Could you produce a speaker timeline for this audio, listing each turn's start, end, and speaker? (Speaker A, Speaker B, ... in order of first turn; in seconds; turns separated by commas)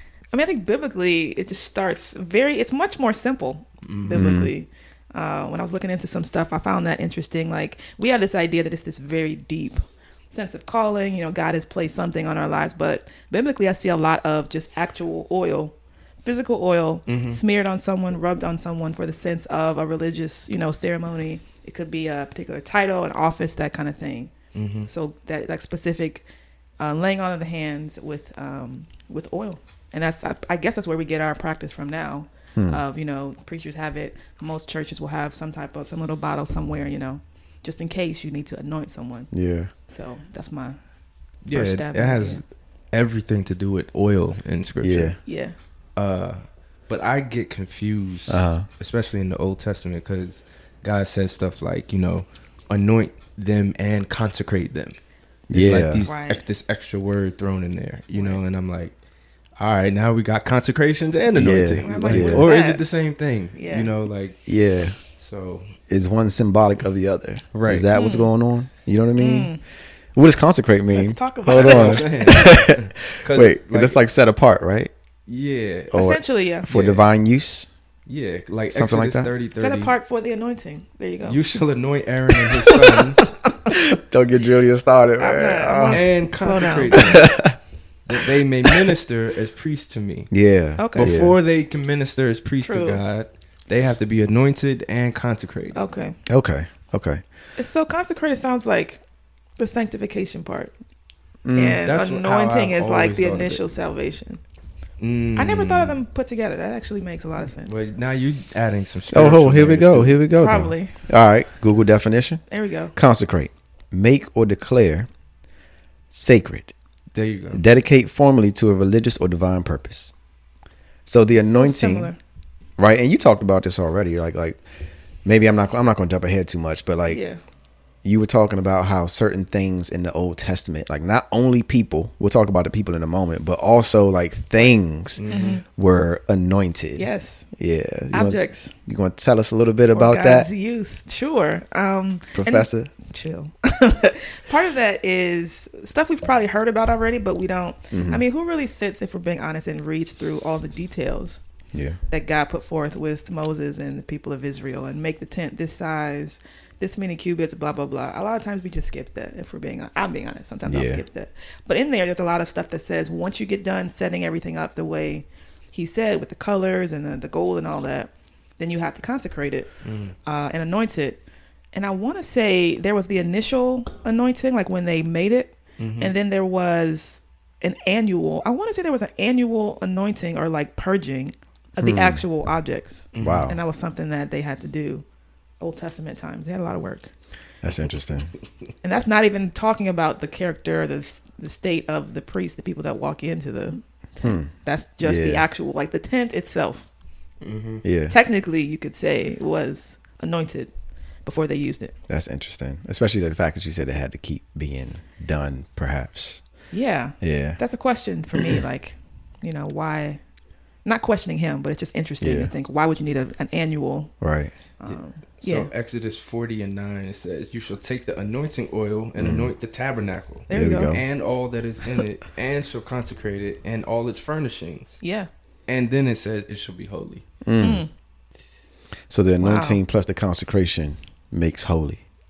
Speaker A: 0.3-24.3, Speaker B: 3.8-4.2, Speaker C: 4.1-4.5, Speaker B: 17.1-17.4, Speaker B: 24.5-24.9, Speaker A: 24.9-26.2, Speaker A: 26.8-39.3, Speaker C: 32.5-32.8, Speaker C: 39.3-39.7, Speaker A: 39.9-40.8, Speaker B: 41.4-45.2, Speaker A: 41.5-42.4, Speaker C: 44.8-45.2, Speaker A: 45.2-45.5, Speaker B: 46.0-55.0, Speaker C: 48.3-48.6, Speaker C: 55.5-56.0, Speaker B: 55.5-58.9, Speaker A: 56.0-56.4, Speaker A: 58.1-58.4, Speaker B: 59.6-64.4, Speaker C: 61.3-62.5, Speaker A: 61.8-62.8, Speaker A: 63.5-63.9, Speaker C: 64.5-65.0, Speaker B: 65.1-65.7, Speaker C: 65.9-69.5, Speaker B: 67.5-67.9, Speaker A: 67.9-68.3, Speaker A: 69.2-69.6, Speaker C: 70.1-74.9, Speaker A: 70.9-72.5, Speaker B: 71.5-74.0, Speaker B: 75.3-75.9, Speaker A: 75.9-76.7, Speaker C: 75.9-77.7, Speaker B: 76.7-77.1, Speaker B: 78.0-79.9, Speaker C: 78.7-79.3, Speaker A: 79.5-81.4, Speaker B: 81.2-83.4, Speaker C: 83.7-86.1, Speaker A: 85.2-87.2, Speaker B: 85.9-87.5, Speaker C: 87.0-87.5, Speaker B: 88.1-90.3, Speaker C: 90.3-91.3, Speaker A: 90.8-91.1, Speaker B: 90.9-95.8, Speaker A: 92.6-93.0, Speaker A: 95.7-96.2, Speaker C: 96.3-97.2, Speaker A: 97.6-99.0, Speaker A: 99.6-100.7, Speaker C: 101.4-101.8, Speaker A: 101.5-104.4, Speaker B: 101.8-103.6, Speaker B: 105.0-106.0, Speaker A: 105.3-107.7, Speaker B: 107.6-110.2, Speaker C: 109.1-112.4, Speaker A: 110.3-111.0, Speaker A: 112.5-112.9, Speaker C: 112.9-115.1, Speaker C: 116.1-116.7, Speaker B: 117.1-117.6, Speaker C: 117.5-120.1, Speaker C: 121.0-122.1, Speaker A: 121.3-122.2, Speaker C: 122.8-124.6, Speaker C: 125.2-127.2, Speaker A: 127.1-127.4, Speaker C: 128.0-140.5, Speaker B: 135.2-135.6, Speaker A: 135.3-135.6, Speaker A: 136.9-137.5, Speaker A: 138.1-138.7, Speaker A: 139.9-151.4, Speaker C: 142.3-142.9, Speaker C: 147.9-148.2, Speaker A: 152.1-169.7, Speaker C: 160.7-161.0, Speaker B: 169.8-170.1, Speaker A: 170.2-171.2, Speaker A: 171.7-185.0, Speaker B: 175.8-176.1, Speaker C: 181.8-182.2, Speaker B: 183.1-183.5, Speaker C: 183.2-183.6, Speaker A: 185.6-187.1, Speaker C: 187.6-188.3, Speaker A: 188.8-196.9, Speaker C: 194.2-195.4, Speaker B: 197.4-197.8, Speaker C: 197.8-198.1, Speaker A: 198.1-200.7, Speaker A: 201.2-201.9, Speaker C: 202.1-206.4, Speaker A: 206.7-210.2, Speaker C: 207.2-207.6, Speaker A: 210.8-214.1, Speaker C: 212.2-212.5, Speaker C: 214.2-214.5, Speaker A: 214.8-215.7, Speaker B: 214.9-225.0, Speaker C: 219.2-219.5, Speaker A: 220.5-221.0, Speaker C: 220.5-221.0, Speaker A: 225.0-225.3, Speaker B: 225.7-227.2, Speaker C: 227.4-227.8, Speaker A: 227.6-227.9, Speaker C: 229.1-232.0, Speaker A: 229.4-229.8